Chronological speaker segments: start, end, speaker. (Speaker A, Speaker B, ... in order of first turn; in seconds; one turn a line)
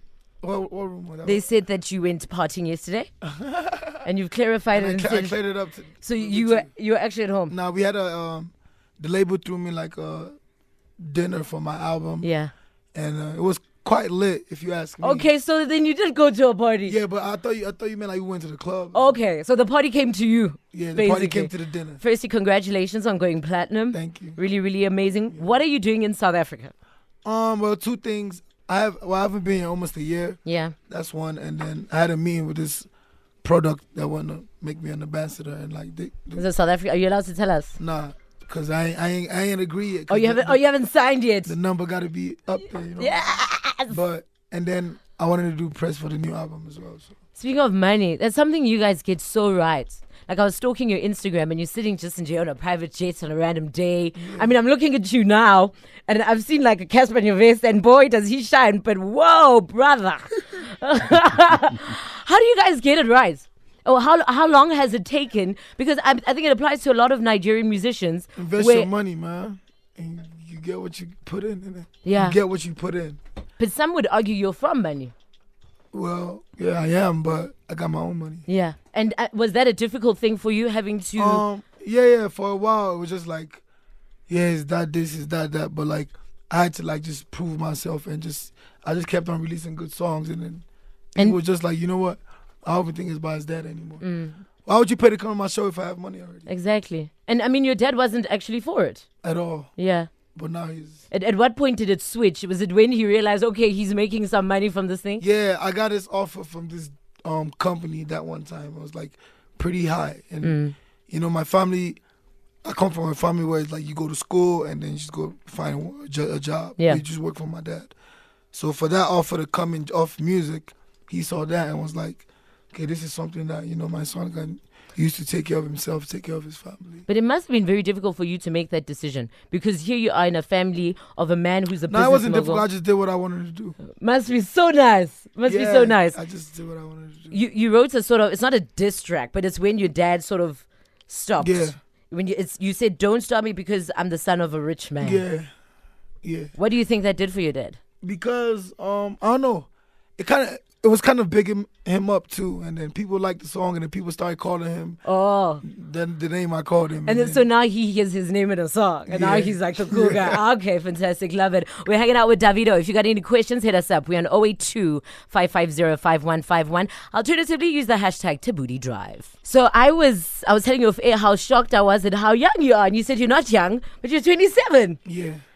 Speaker A: 0.4-1.4
Speaker B: 1.2-3.1
Speaker A: 3.2-4.0
Speaker B: 4.0-5.4
Speaker A: 4.7-6.7
Speaker B: 6.0-7.5
Speaker A: 7.5-10.3
Speaker A: 11.0-12.3
Speaker B: 12.2-12.5
Speaker A: 12.9-15.3
Speaker B: 15.0-16.9
Speaker A: 16.9-19.1
Speaker B: 18.9-26.7
Speaker A: 20.7-22.0
Speaker A: 23.9-24.4
Speaker A: 27.2-32.9
Speaker B: 30.4-30.7
Speaker A: 33.4-36.5
Speaker B: 36.4-37.8
Speaker A: 37.8-40.6
Speaker B: 40.1-41.5
Speaker A: 41.5-47.1
Speaker B: 43.0-44.0
Speaker B: 47.4-68.9
Speaker A: 54.2-54.5
Speaker A: 68.4-73.2
Speaker B: 72.0-72.4
Speaker B: 73.6-75.1
Speaker A: 75.9-78.5
Speaker B: 78.5-81.4
Speaker A: 81.2-83.6
Speaker A: 84.3-94.0
Speaker B: 94.0-94.4
Speaker A: 94.7-96.5
Speaker B: 96.5-99.0
Speaker A: 99.2-99.7
Speaker B: 99.8-100.1
Speaker A: 100.3-101.0
Speaker B: 101.1-105.2
Speaker A: 105.2-112.0
Speaker B: 110.4-110.8
Speaker A: 112.6-117.9
Speaker A: 118.5-127.1
Speaker B: 127.1-132.7
Speaker A: 131.9-133.8
Speaker B: 133.9-136.2
Speaker A: 135.4-137.4
Speaker B: 137.3-145.2
Speaker A: 141.4-141.8
Speaker A: 145.0-145.5
Speaker A: 146.2-146.5
Speaker B: 146.5-147.8
Speaker A: 148.0-155.0
Speaker B: 155.0-155.6
Speaker A: 155.6-157.4
Speaker B: 157.1-175.0
Speaker A: 159.1-160.4
Speaker A: 175.1-175.4